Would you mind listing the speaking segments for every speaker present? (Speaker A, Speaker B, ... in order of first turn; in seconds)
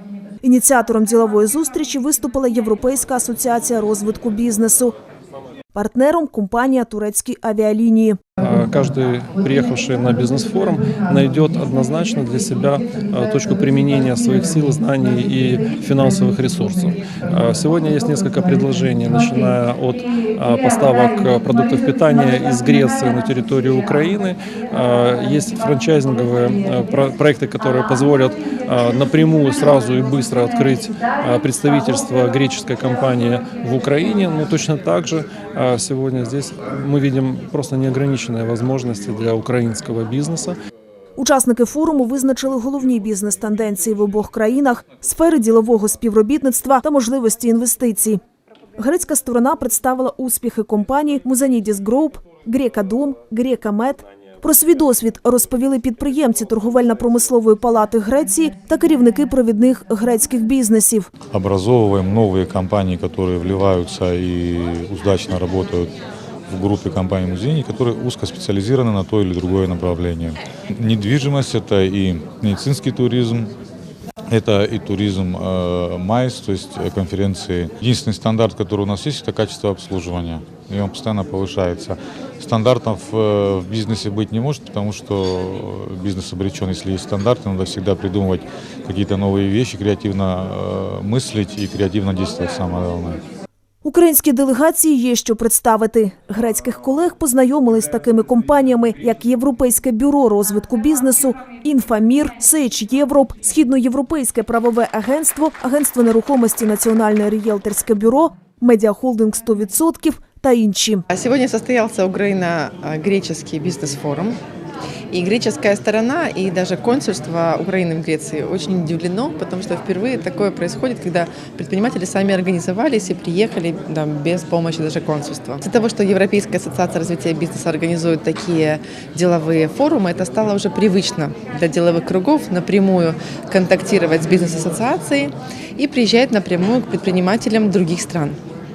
Speaker A: 0.4-5.0, 5.7-8.2, 41.2-48.2, 48.8-61.1, 93.8-111.0
Speaker B: 8.4-40.6
Speaker C: 61.3-65.9, 66.5-73.5, 74.3-93.2
Speaker D: 111.1-114.4, 115.1-138.4